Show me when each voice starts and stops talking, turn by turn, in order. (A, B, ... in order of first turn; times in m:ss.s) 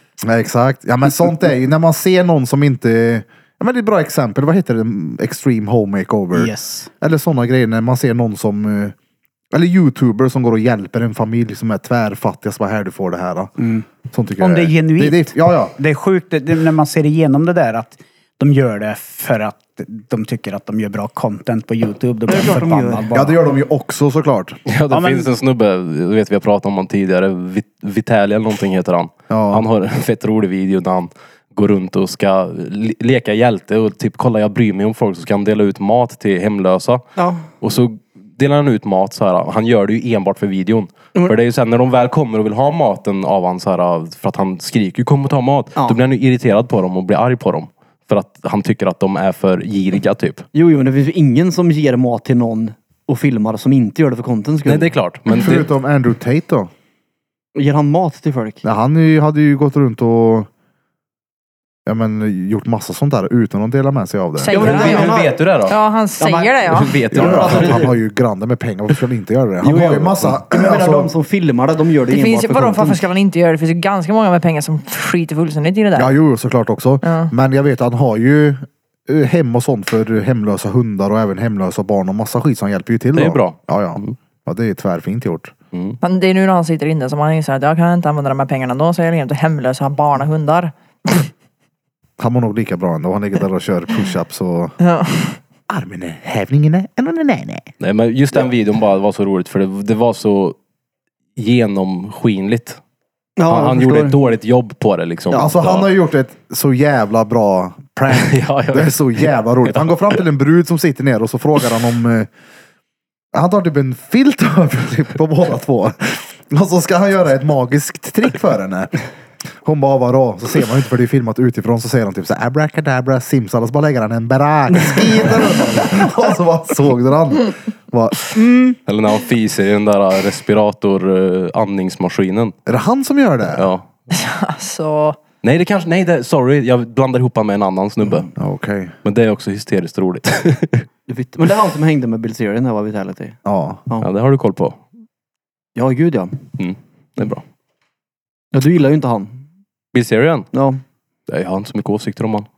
0:00.2-0:08.9 A
0:06.3-0:06.9 B
0:09.5-0:13.5 A
0:13.6-0:23.4 B
0:14.0-0:15.7 A
0:22.3-0:23.1 C
0:23.1-0:24.6 A
0:24.6-0:37.0 D
0:24.9-0:25.3 B
0:29.3-0:29.6 A
0:37.2-0:37.5 C
0:37.6-0:50.4 D
0:50.5-0:54.9 C
0:54.6-0:55.7 D
0:55.3-0:56.7 A
0:57.5-0:58.6 C
0:58.6-1:00.5 A
1:01.8-1:04.5 A
1:04.4-1:07.0 E
1:04.5-1:05.4 C
1:04.5-1:05.8 D
1:06.2-1:06.6 C
1:06.7-1:07.9 D
1:07.1-1:07.9 C
1:07.1-1:11.1 A
1:09.6-1:13.0 C
1:12.1-1:16.1 E
1:15.9-1:25.5 A
1:17.0-1:17.3 E
1:23.1-1:24.2 D
1:25.7-1:26.0 D
1:26.0-1:31.3 E
1:32.2-1:34.7 A
1:34.8-1:35.4 E
1:35.7-1:37.7 A
1:37.8-1:40.6 D
1:41.4-1:42.8 D
1:43.4-1:44.2 C
1:43.5-1:45.9 D
1:45.3-1:52.3 A
1:48.1-1:50.0 D
1:53.3-1:59.0 A
1:59.6-2:08.8 A
2:08.9-2:12.5 D
2:12.7-2:13.7 A
2:13.5-2:13.9 D
2:14.1-2:15.2 E
2:15.4-2:18.3 D
2:18.4-2:18.9 A
2:19.0-2:20.8 D
2:21.1-2:23.4 C
2:23.4-2:23.8 A
2:24.0-2:24.8 D
2:25.7-2:26.4 C
2:26.6-2:27.4 D
2:28.5-2:29.4 C
2:29.9-2:30.5 D
2:30.5-2:30.8 C
2:31.3-2:32.5 D